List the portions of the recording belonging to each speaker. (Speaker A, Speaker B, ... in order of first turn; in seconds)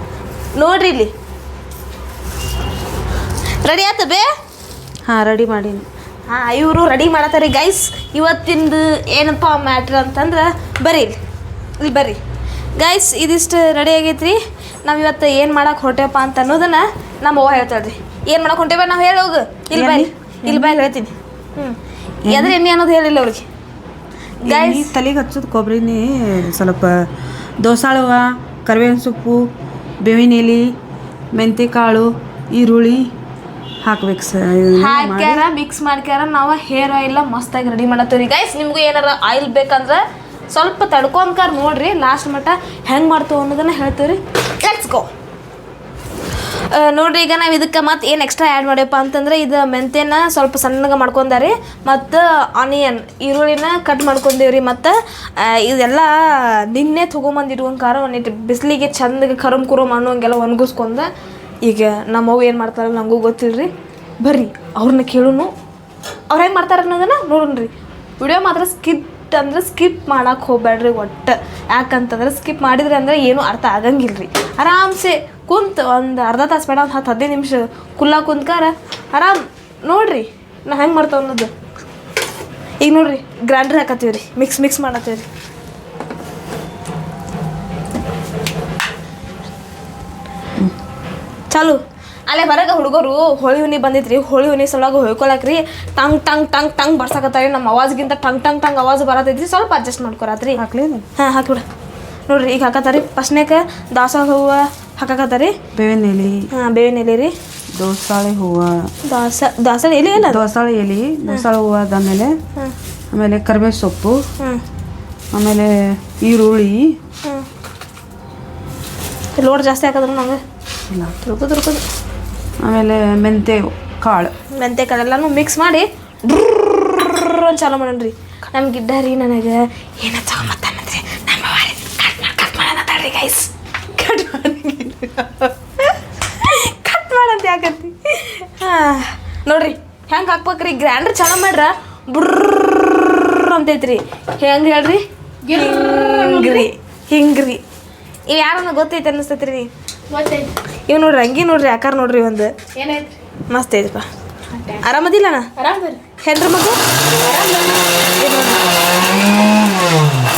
Speaker A: 0.6-1.1, 3.6-4.3, 6.3-11.2, 11.8-12.2, 12.8-23.4, 24.4-24.9, 34.7-45.1, 46.7-61.1, 61.6-63.7, 64.2-65.5, 66.3-81.5, 82.8-85.2, 91.5-100.6, 101.2-101.6, 102.3-105.5, 106.5-107.3, 109.0-110.4, 119.4-120.4, 121.2-121.8, 124.5-133.5, 136.3-145.0, 145.5-147.6, 148.3-149.7, 150.9-152.5, 153.5-154.1, 154.8-155.5, 156.2-156.8, 158.2-158.6
Speaker B: 5.1-5.8, 19.7-20.8, 22.2-22.6, 24.4-27.1, 27.6-29.5, 30.0-30.7, 31.3-33.1, 33.8-35.4, 100.5-101.0, 105.7-106.5, 107.7-108.8, 110.2-112.3, 113.1-114.2, 115.3-116.9, 120.9-121.2, 122.6-124.3, 134.0-135.5
Speaker C: 145.4-146.7, 150.1-150.5, 152.7-153.1, 154.5-154.8, 155.6-156.0, 157.2-157.8